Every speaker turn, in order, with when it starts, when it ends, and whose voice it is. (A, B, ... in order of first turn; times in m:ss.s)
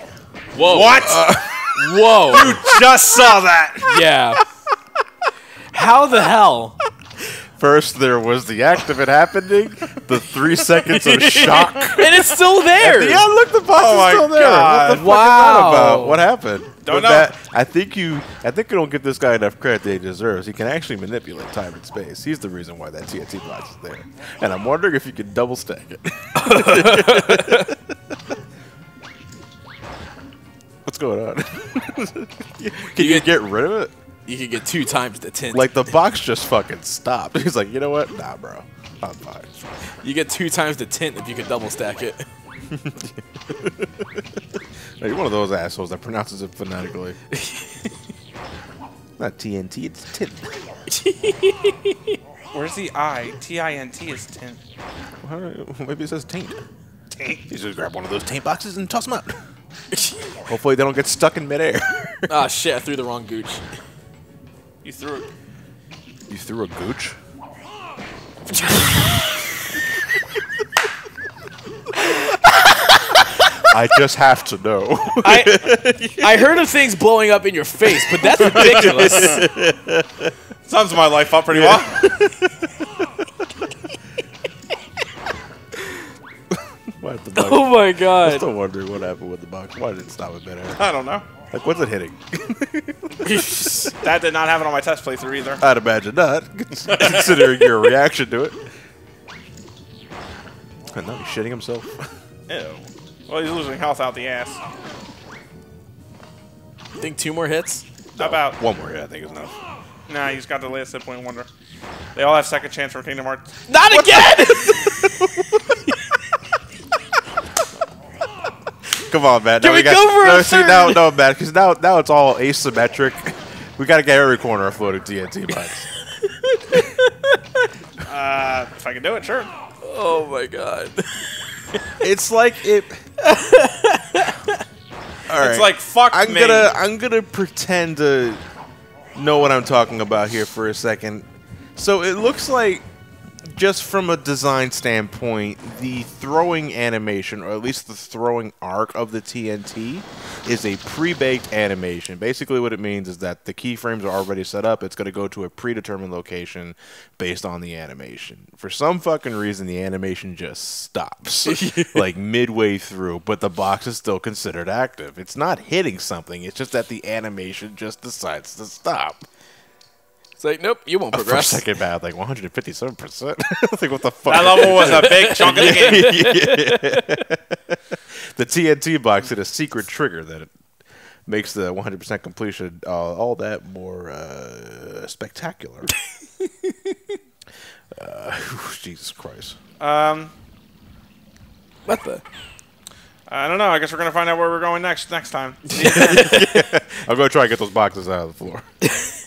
0:00.5-0:02.6 A
0:00.6-0:01.7 B
0:01.0-0:01.7 C
0:02.3-0:04.1 B
0:02.3-0:03.0 C
0:03.8-0:04.4 A
0:05.7-0:06.8 A
0:07.2-0:12.2 C
0:10.8-0:13.3 A
0:12.8-0:27.9 C
0:13.7-0:15.1 B
0:14.9-0:16.3 A
0:16.8-0:17.3 B
0:26.4-0:27.7 A
0:30.8-0:33.9 C
0:32.9-0:33.4 A
0:34.2-0:35.9 A
0:35.5-0:39.5 C
0:40.0-0:42.2 A
0:42.7-0:47.2 C
0:47.4-0:47.9 A
0:49.2-0:50.6 C
0:50.9-0:52.2 A
0:52.5-0:54.6 B
0:55.2-0:56.6 C
0:57.1-0:57.4 B
0:57.5-0:59.4 C
1:00.4-1:02.3 C
1:02.3-1:03.6 A
1:04.8-1:05.3 B
1:06.3-1:07.2 C
1:08.5-1:09.3 A
1:13.7-1:16.5 C
1:15.2-1:19.5 A
1:18.1-1:20.3 C
1:19.0-1:19.3 B
1:20.6-1:22.0 B
1:21.5-1:23.1 C
1:26.5-1:30.8 C
1:27.3-1:28.5 A
1:30.7-1:31.3 B
1:31.5-1:33.4 C
1:33.2-1:33.9 A
1:34.0-1:35.6 B
1:35.6-1:38.7 C
1:36.8-1:37.4 B
1:40.9-1:42.1 C
1:42.5-1:44.6 B
1:47.0-1:47.8 A
1:48.1-1:48.6 B
1:48.2-1:49.6 C
1:50.1-1:51.5 B
1:52.1-1:53.6 B
1:53.7-1:55.4 A
1:53.9-1:55.8 C
1:59.1-2:05.9 C
1:59.6-2:01.1 A
2:06.7-2:07.4 A
2:08.0-2:09.5 B
2:09.8-2:11.2 A
2:12.0-2:13.0 C
2:13.2-2:14.6 A
2:15.3-2:18.4 C
2:15.4-2:16.7 B
2:19.1-2:22.8 C
2:23.4-2:49.2 C
2:41.4-2:42.1 A
2:50.4-2:51.6 A
2:51.1-3:00.5 C
2:54.2-2:56.1 B
2:54.6-2:57.2 A
3:01.2-3:05.9 C
3:07.9-3:09.6 C
3:09.8-3:10.3 B
3:11.9-3:12.2 A
3:13.3-3:16.4 B
3:15.8-3:18.7 C